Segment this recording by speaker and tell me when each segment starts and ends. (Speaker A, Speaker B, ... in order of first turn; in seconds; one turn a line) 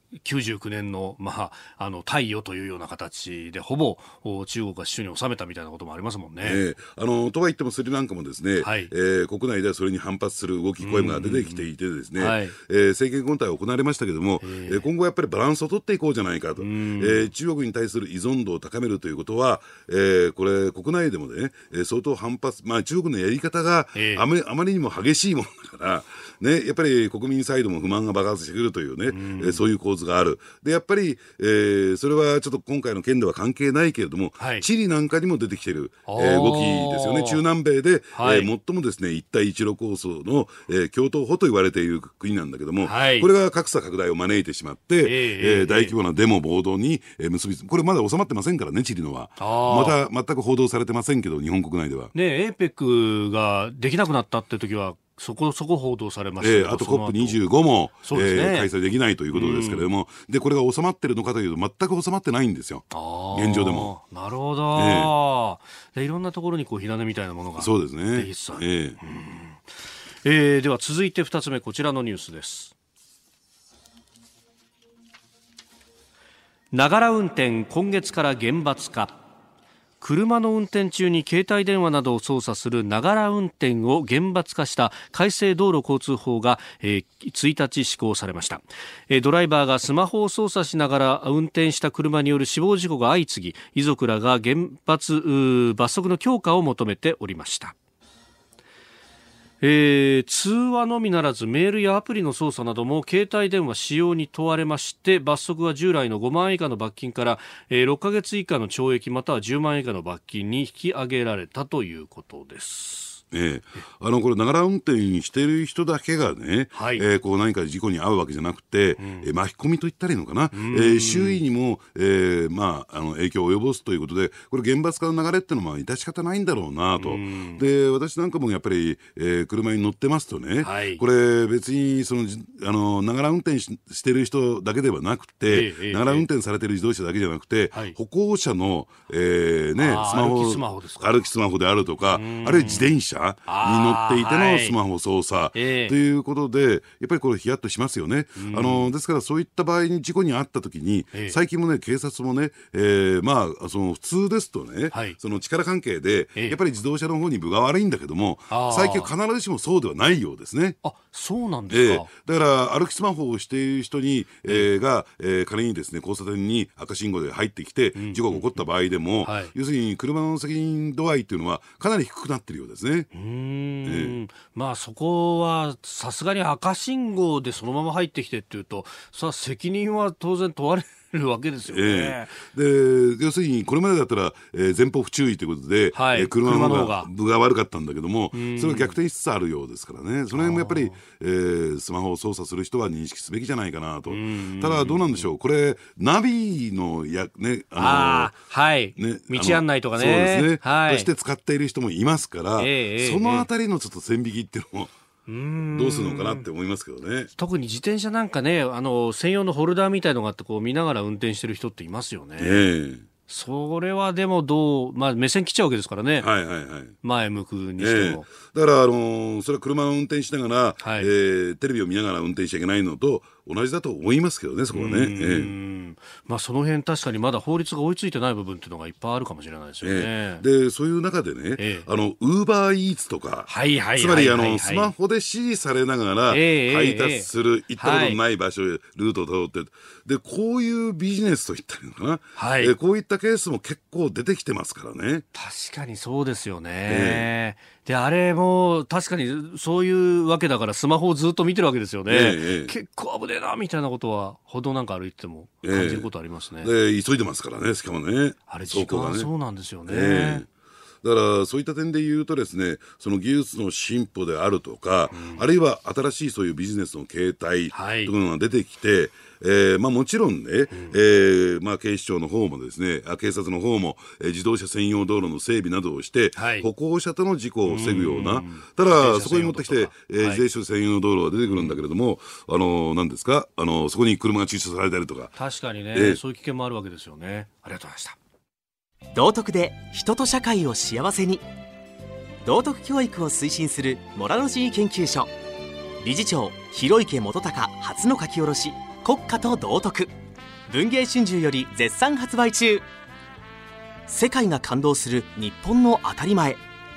Speaker A: 0.1-6.6
Speaker B: 6.4-52.1
Speaker A: 8.6-8.9
Speaker A: 10.8-11.6
Speaker A: 12.2-12.6
Speaker A: 14.4-14.8
Speaker A: 16.6-17.3
Speaker A: 23.9-24.2
Speaker A: 29.1-29.6
Speaker A: 34.4-34.7
Speaker A: 36.1-37.4
Speaker A: 38.1-38.5
Speaker A: 42.8-43.3
Speaker A: 45.0-45.9
Speaker A: 49.4-50.0
Speaker A: 52.1-57.4
Speaker B: 56.4-63.9
Speaker A: 58.0-58.7
Speaker A: 59.3-59.9
Speaker A: 62.9-69.6
Speaker B: 64.8-65.1
Speaker B: 67.6-69.0
Speaker A: 70.2-72.7
Speaker A: 76.7-79.2
Speaker A: 80.0-97.8
Speaker A: 99.6-113.2
Speaker B: 113.3-160.8
Speaker A: 116.7-117.0
Speaker A: 119.0-119.3
Speaker A: 120.5-121.4
Speaker A: 127.0-127.6
Speaker A: 130.6-131.0
Speaker A: 135.5-136.3
Speaker A: 139.8-141.2
Speaker A: 142.1-142.9
Speaker A: 143.5-144.8
Speaker A: 145.5-145.9
Speaker A: 148.4-148.9
Speaker A: 151.1-151.4
Speaker A: 154.9-155.2
Speaker A: 158.5-159.1
Speaker A: 160.8-162.1
Speaker B: 161.7-173.1
Speaker A: 167.9-168.6
Speaker A: 169.2-169.5
Speaker A: 173.1-182.4
Speaker B: 173.8-174.2
Speaker B: 181.7-198.3
Speaker A: 185.9-187.1
Speaker A: 188.3-189.0
Speaker A: 190.3-191.0
Speaker A: 194.1-195.2
Speaker A: 197.8-201.1
Speaker B: 199.0-204.9
Speaker A: 202.6-203.5
Speaker A: 205.3-206.5
Speaker B: 205.7-207.3
Speaker A: 207.4-212.7
Speaker B: 212.4-213.1
Speaker A: 213.3-216.3
Speaker B: 216.2-217.0
Speaker A: 217.0-218.3
Speaker B: 217.8-225.5
Speaker A: 220.8-221.1
Speaker A: 224.7-230.4
Speaker B: 229.8-245.2
Speaker A: 231.6-231.9
Speaker A: 233.5-234.9
Speaker A: 236.3-238.2
Speaker A: 242.4-242.8
Speaker A: 245.3-256.7
Speaker B: 246.9-247.3
Speaker B: 252.1-252.7
Speaker B: 255.6-256.1
Speaker B: 256.6-259.3
Speaker A: 258.5-260.4
Speaker B: 259.9-260.5
Speaker B: 261.0-285.3
Speaker A: 265.1-265.4
Speaker A: 267.7-268.1
Speaker A: 276.4-276.7
Speaker A: 277.7-280.4
Speaker A: 285.4-288.2
Speaker B: 285.9-286.2
Speaker C: 289.1-291.4
Speaker C: 292.4-295.3
Speaker C: 296.0-300.1
Speaker C: 300.7-302.9
Speaker C: 304.1-306.6